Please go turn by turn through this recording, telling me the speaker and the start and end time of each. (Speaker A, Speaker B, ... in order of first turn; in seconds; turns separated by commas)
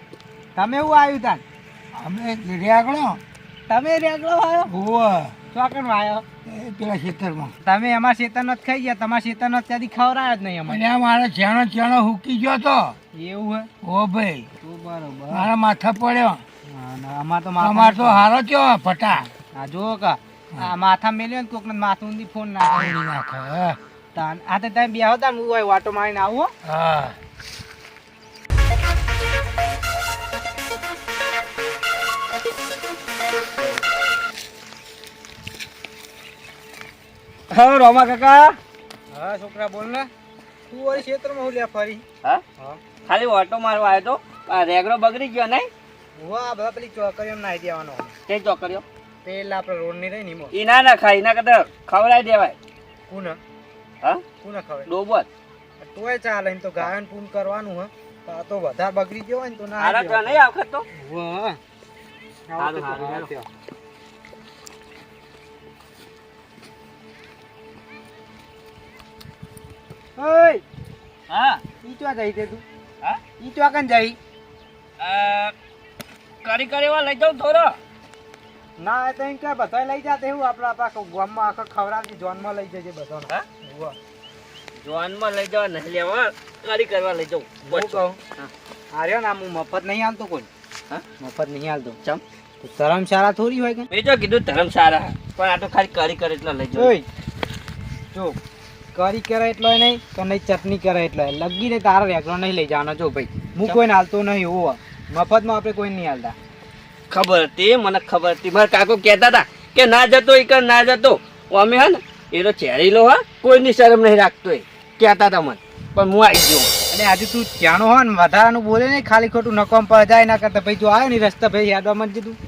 Speaker A: 0.6-1.4, Speaker B: 1.9-3.2, Speaker A: 3.7-4.7, Speaker B: 4.7-5.3, Speaker A: 5.5-6.2, Speaker B: 6.5-7.5, Speaker A: 7.6-10.9, Speaker B: 10.7-12.9, Speaker A: 13.1-13.7, Speaker B: 13.8-14.5, Speaker A: 14.6-15.5, Speaker B: 15.3-16.4, Speaker A: 16.7-18.3, Speaker B: 17.6-19.3, Speaker A: 19.5-23.1, Speaker B: 23.0-23.8, Speaker A: 24.1-26.5, Speaker B: 26.7-27.1, Speaker C: 37.5-38.6, Speaker A: 39.1-40.1, Speaker A: 40.7-42.0, Speaker C: 43.0-45.7, Speaker A: 46.2-48.1, Speaker C: 48.3-48.8, Speaker A: 49.2-50.5, Speaker C: 50.5-52.5, Speaker A: 53.1-53.4, Speaker A: 54.4-54.9, Speaker C: 54.9-55.3, Speaker A: 55.8-60.4, Speaker C: 59.8-60.9, Speaker A: 61.0-61.6, Speaker A: 62.5-63.5, Speaker C: 62.6-63.3, Speaker A: 70.2-70.6, Speaker C: 71.3-71.6, Speaker A: 71.8-72.6, Speaker A: 73.4-74.2, Speaker C: 75.0-75.5, Speaker C: 76.4-77.8, Speaker A: 78.8-84.0, Speaker C: 84.8-88.5, Speaker A: 87.6-88.2, Speaker A: 88.9-90.5, Speaker A: 91.2-92.0, Speaker A: 92.6-93.9, Speaker C: 93.9-96.9, Speaker A: 96.7-97.1, Speaker A: 98.9-106.4, Speaker C: 107.1-116.7, Speaker A: 116.9-122.4